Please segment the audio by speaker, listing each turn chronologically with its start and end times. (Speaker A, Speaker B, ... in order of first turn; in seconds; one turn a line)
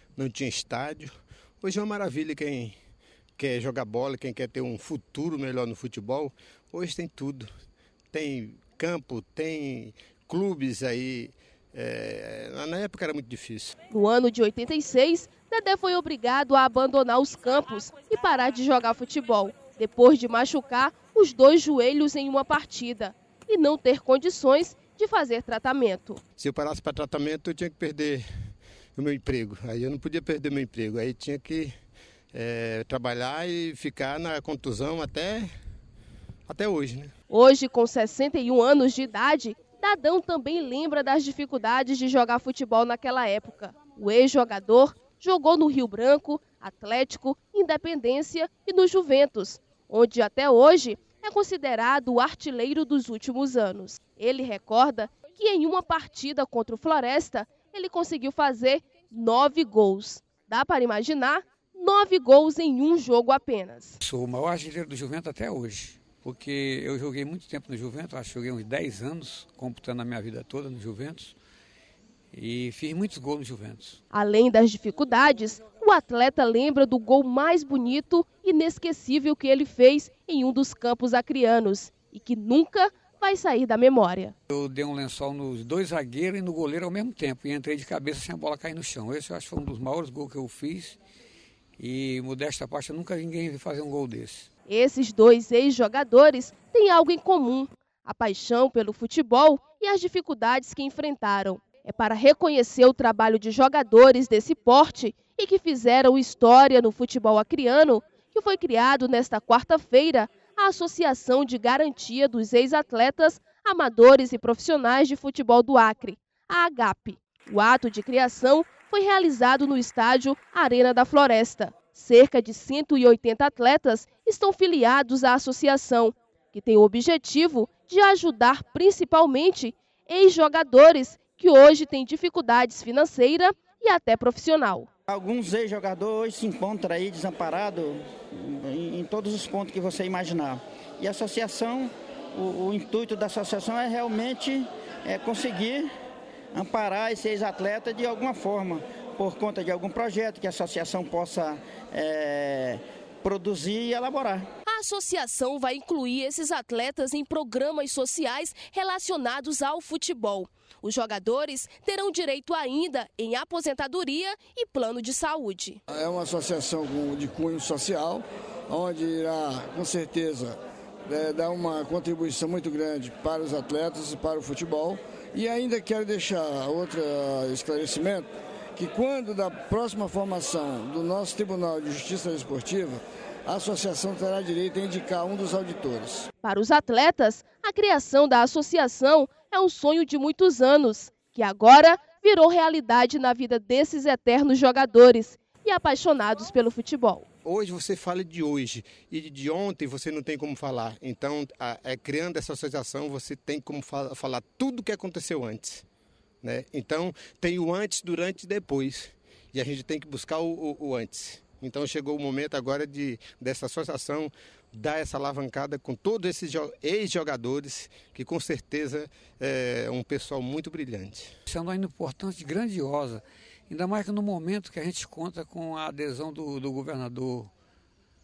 Speaker A: 0.2-2.8
Speaker A: 3.4-7.5
Speaker A: 8.1-13.7
Speaker B: 13.9-26.2
Speaker A: 26.4-28.2
Speaker A: 28.9-31.7
Speaker A: 32.3-35.5
Speaker A: 36.5-37.1
Speaker B: 37.3-64.0
Speaker C: 64.0-71.4
Speaker C: 72.3-74.0
Speaker B: 74.1-84.3
Speaker C: 84.5-91.0
Speaker C: 91.8-94.5
Speaker B: 94.7-134.9
Speaker D: 135.1-145.9
Speaker D: 146.5-154.5
Speaker B: 154.7-165.8
Speaker E: 165.9-186.3
Speaker B: 186.4-197.2
Speaker A: 197.4-205.8
Speaker A: 206.4-221.3
Speaker C: 221.5-227.5